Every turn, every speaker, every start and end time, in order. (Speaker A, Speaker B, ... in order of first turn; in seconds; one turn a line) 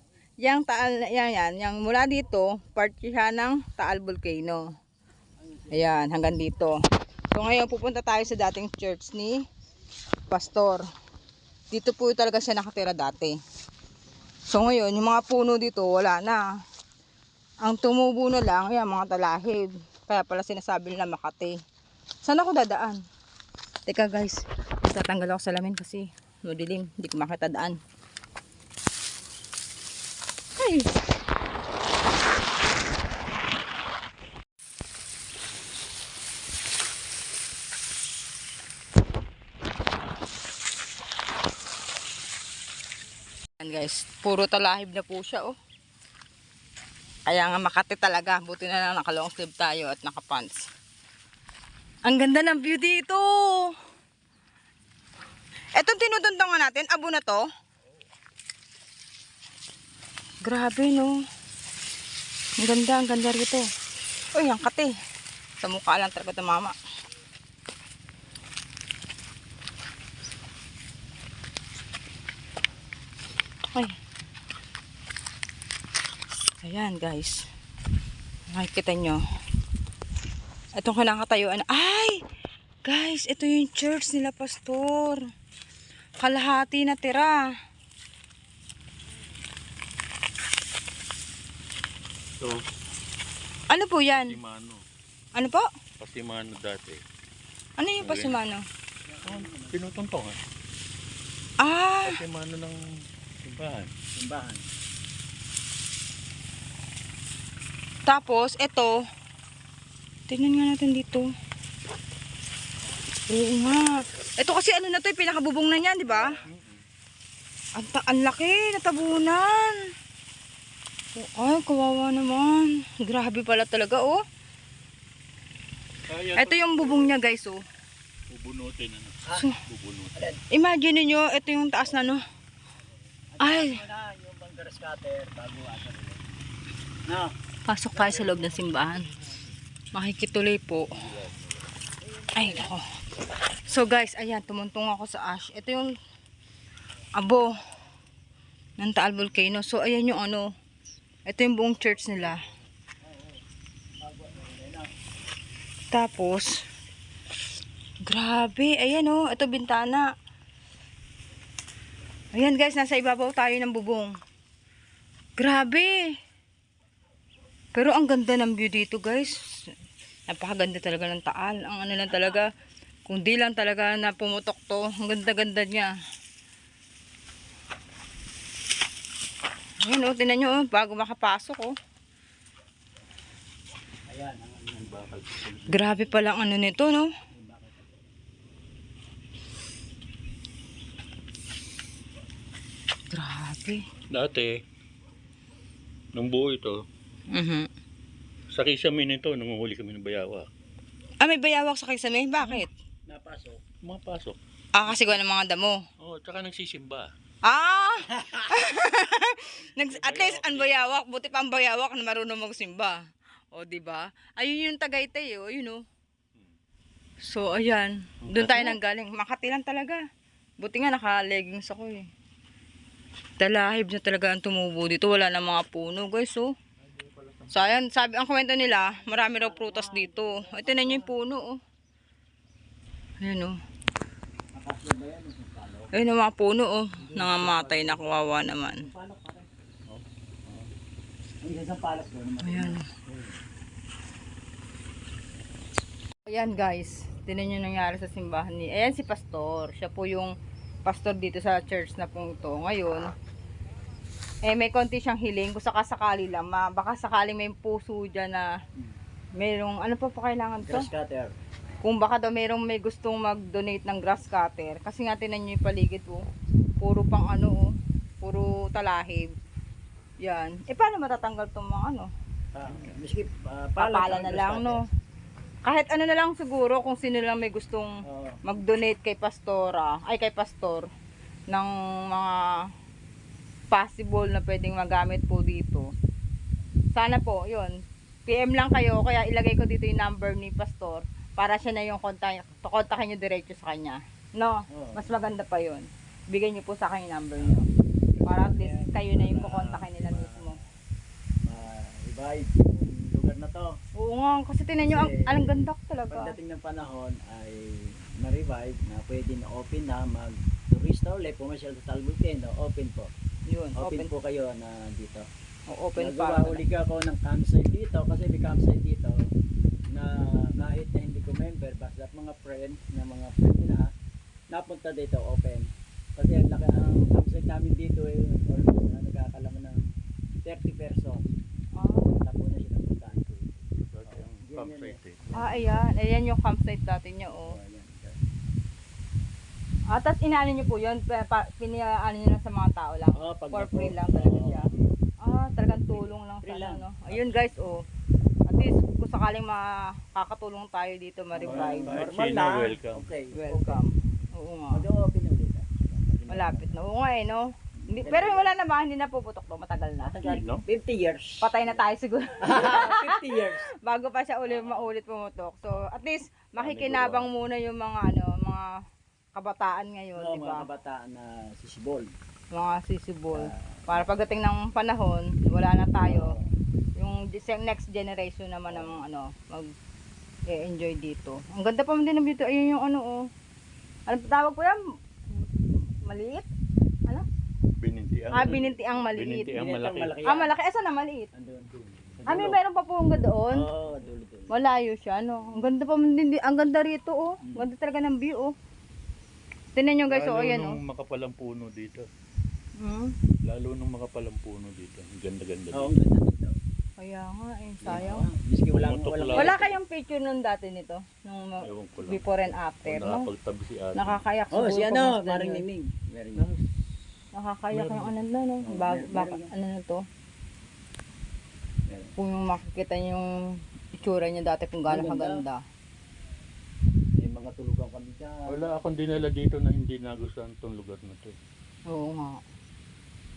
Speaker A: 0.4-4.6
Speaker B: 5.4-5.9
Speaker A: 5.7-6.8
Speaker A: 7.3-9.4
Speaker A: 10.3-10.8
Speaker A: 11.7-13.4
Speaker A: 14.5-16.4
Speaker A: 17.6-21.6
Speaker A: 22.2-23.0
Speaker A: 23.9-27.8
Speaker A: 30.6-30.9
Speaker A: 43.6-45.5
Speaker A: 47.3-50.7
Speaker A: 52.1-53.7
Speaker A: 55.8-57.4
Speaker A: 60.4-61.1
Speaker A: 62.6-63.7
Speaker A: 64.3-64.9
Speaker A: 65.6-66.8
Speaker A: 76.6-77.5
Speaker A: 78.5-79.2
Speaker A: 80.8-82.2
Speaker A: 82.9-85.2
Speaker A: 86.2-87.4
Speaker A: 93.7-94.3
Speaker C: 94.1-94.8
Speaker A: 95.3-95.7
Speaker C: 96.0-97.0
Speaker A: 97.8-98.6
Speaker C: 98.0-98.4
Speaker B: 99.1-99.8
Speaker C: 99.2-100.4
Speaker A: 101.6-102.2
Speaker C: 102.1-102.8
Speaker C: 103.4-103.9
Speaker B: 104.2-104.6
Speaker A: 108.1-109.0
Speaker A: 110.3-111.3
Speaker A: 113.3-116.4
Speaker B: 116.1-116.5
Speaker C: 116.5-116.8
Speaker A: 117.8-119.8
Speaker A: 121.2-124.2
Speaker C: 126.1-127.1
Speaker A: 126.4-127.6
Speaker C: 128.3-130.2
Speaker A: 130.5-132.2
Speaker B: 133.2-136.2
Speaker A: 133.4-133.8
Speaker A: 137.7-139.1
Speaker B: 137.9-138.6
Speaker A: 139.9-140.9
Speaker C: 140.8-141.6
Speaker B: 142.0-142.8
Speaker A: 142.4-142.8
Speaker A: 143.7-145.9
Speaker A: 147.2-147.5
Speaker A: 148.8-150.5
Speaker A: 151.3-152.4
Speaker B: 153.0-153.4
Speaker B: 154.0-154.9
Speaker A: 155.9-156.6
Speaker A: 158.1-160.1
Speaker A: 162.3-164.1
Speaker A: 165.4-166.1
Speaker A: 167.8-169.4
Speaker A: 170.3-172.5
Speaker A: 173.1-175.9
Speaker A: 179.8-181.7
Speaker B: 184.1-184.9
Speaker C: 184.7-185.9
Speaker A: 185.7-187.1
Speaker B: 187.3-188.0
Speaker A: 193.1-193.8
Speaker C: 194.1-194.5
Speaker C: 196.1-196.8
Speaker A: 197.3-197.7
Speaker C: 198.5-200.5
Speaker A: 201.2-202.7
Speaker B: 203.1-203.6
Speaker C: 203.8-204.4
Speaker A: 204.8-205.8
Speaker C: 206.0-207.1
Speaker A: 207.5-213.0
Speaker B: 208.2-208.5
Speaker B: 209.7-210.9
Speaker A: 213.5-215.8
Speaker A: 217.2-220.0
Speaker C: 218.2-218.8
Speaker A: 220.6-222.1
Speaker A: 223.4-226.5
Speaker C: 226.8-227.8
Speaker A: 227.5-231.6
Speaker B: 228.7-231.2
Speaker A: 233.2-233.6
Speaker B: 234.5-235.9
Speaker A: 235.9-238.9
Speaker C: 237.0-238.0
Speaker B: 238.8-240.7
Speaker B: 241.4-243.4
Speaker A: 242.4-242.8
Speaker A: 246.3-250.3
Speaker A: 250.8-253.1
Speaker A: 254.5-258.5
Speaker A: 259.4-260.9
Speaker B: 260.6-261.3
Speaker A: 261.8-266.2
Speaker A: 266.8-267.7
Speaker A: 268.2-269.3
Speaker A: 270.2-272.1
Speaker B: 272.5-274.8
Speaker C: 272.7-273.0
Speaker A: 273.8-274.8
Speaker A: 275.7-280.9
Speaker B: 278.1-278.4
Speaker A: 281.5-282.5
Speaker A: 283.7-285.8
Speaker A: 286.9-287.7
Speaker A: 288.3-297.7
Speaker B: 294.7-295.0
Speaker B: 298.2-300.5
Speaker A: 298.2-300.6
Speaker B: 301.4-303.7
Speaker A: 304.0-306.4
Speaker B: 304.8-313.1
Speaker A: 313.5-314.1
Speaker B: 313.8-315.3
Speaker A: 315.7-316.6
Speaker B: 316.0-319.2
Speaker B: 319.9-323.9
Speaker B: 324.5-329.9
Speaker B: 330.4-331.2
Speaker A: 331.8-332.2
Speaker B: 332.2-333.2
Speaker C: 333.0-335.7
Speaker B: 334.1-335.8
Speaker A: 335.4-337.5
Speaker B: 337.5-338.2
Speaker A: 339.9-344.7
Speaker B: 343.1-344.7
Speaker A: 345.2-347.8
Speaker B: 345.7-347.5
Speaker A: 348.5-352.1
Speaker B: 351.3-353.8
Speaker C: 351.5-353.0
Speaker A: 353.3-354.8
Speaker B: 354.7-356.8
Speaker A: 356.3-360.2
Speaker B: 357.8-358.5
Speaker B: 360.1-361.8
Speaker C: 360.3-360.6
Speaker A: 361.4-363.1
Speaker B: 362.4-363.7
Speaker A: 363.8-368.7
Speaker B: 364.5-364.9
Speaker C: 366.6-367.1
Speaker B: 367.0-367.2
Speaker A: 369.4-370.7
Speaker B: 370.2-372.1
Speaker A: 372.5-376.3
Speaker B: 373.3-374.1
Speaker B: 376.0-376.5
Speaker A: 377.0-379.7
Speaker B: 378.7-379.0
Speaker A: 380.5-383.2
Speaker A: 384.1-384.8
Speaker A: 385.3-386.5
Speaker C: 387.8-390.1
Speaker A: 388.3-389.6
Speaker B: 389.5-390.5
Speaker A: 390.2-391.3
Speaker B: 391.3-391.7
Speaker C: 391.7-392.2
Speaker B: 392.2-392.6
Speaker A: 392.3-393.6
Speaker B: 393.5-394.5
Speaker A: 394.5-398.5
Speaker A: 399.8-400.8
Speaker C: 400.1-402.1
Speaker A: 402.8-403.1
Speaker C: 403.4-405.9
Speaker B: 405.7-406.6
Speaker A: 407.0-408.3
Speaker B: 407.8-409.8
Speaker C: 408.7-409.6
Speaker A: 409.4-413.3
Speaker C: 411.7-412.3
Speaker C: 412.8-414.2
Speaker A: 413.9-415.6
Speaker B: 414.5-416.5
Speaker A: 417.4-420.0
Speaker C: 417.7-418.1
Speaker B: 418.7-419.5
Speaker A: 422.2-423.3
Speaker A: 423.9-425.6
Speaker B: 424.9-425.4
Speaker B: 427.2-428.7
Speaker C: 428.5-431.4
Speaker A: 431.9-432.4